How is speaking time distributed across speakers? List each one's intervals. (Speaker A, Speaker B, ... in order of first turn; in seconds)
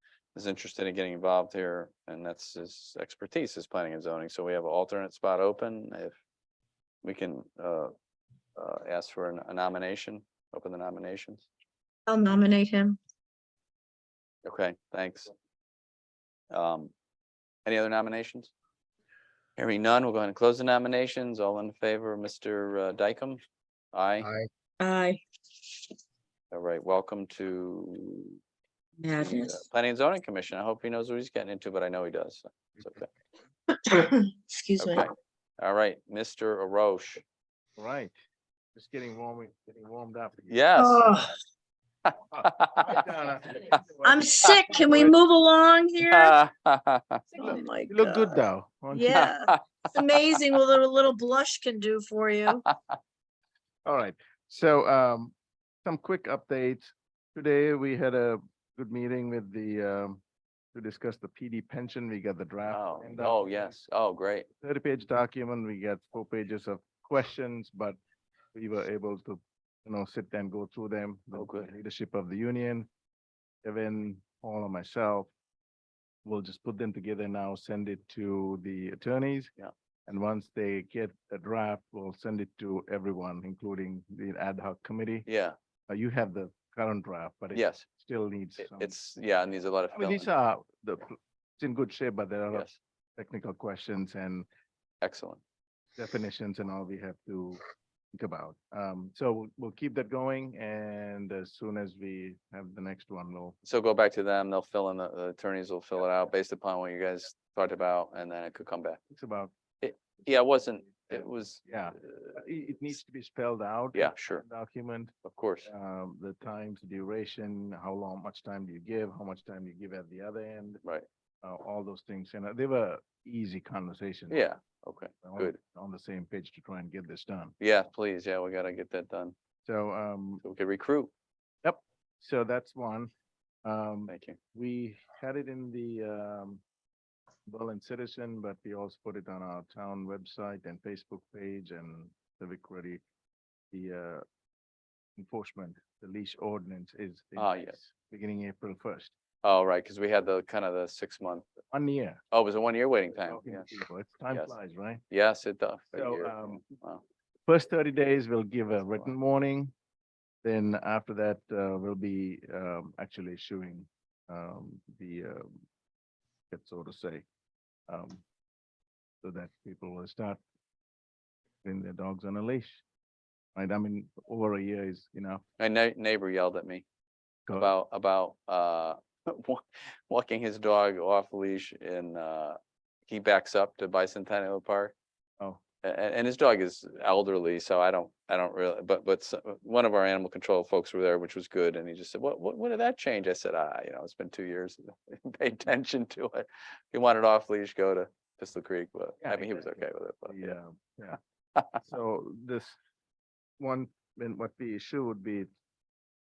Speaker A: 0.3-6.2, 7.0-7.9, 8.6-11.5, 14.4-15.3, 16.5-16.9, 17.6-18.5, 19.6-23.4, 23.9-24.3, 26.5-28.4, 29.2-33.1, 34.8-37.2, 40.5-41.0, 42.0-43.8, 44.4-45.1, 46.0-47.5, 49.1-49.6, 50.1-50.6, 52.6-53.0, 62.7-64.5, 71.3-71.7, 85.2-85.5, 87.5-87.8, 88.6-90.3, 92.5-92.8, 95.0-95.4, 103.6-109.0, 109.8-112.4, 113.9-114.4, 115.2-115.7, 124.3-125.6, 127.6-129.3, 130.4-131.1, 134.1-134.4, 147.4-147.8, 149.4-151.5, 152.3-153.7, 155.1-157.0, 175.6-176.8, 177.5-184.9, 185.8-200.6
Speaker B: 12.1-13.0, 24.8-25.2, 29.0-29.6, 33.9-35.1, 40.8-41.3, 44.0-46.4, 47.3-48.4, 48.9-52.6
Speaker C: 37.8-38.1, 38.7-40.6, 42.3-44.2, 47.4-49.2, 53.8-60.2, 60.7-63.8, 64.6-68.0, 68.5-72.9, 73.6-75.3, 76.2-79.5, 80.1-85.3, 85.9-88.9, 89.9-94.5, 96.0-97.6, 98.1-103.5, 109.1-109.5, 110.2-115.1, 115.6-120.8, 121.4-124.4, 125.2-127.5, 129.6-130.4, 131.6-133.1, 133.6-136.6, 137.5-143.0, 143.7-144.2, 145.2-149.1, 151.7-152.2, 153.2-155.0, 155.9-156.6, 157.5-159.7, 160.4-165.5, 166.5-167.2, 167.9-168.2, 169.2-170.4, 171.6-172.8, 173.5-175.4, 177.5-177.7, 199.2-201.2, 201.8-202.8, 203.6-205.5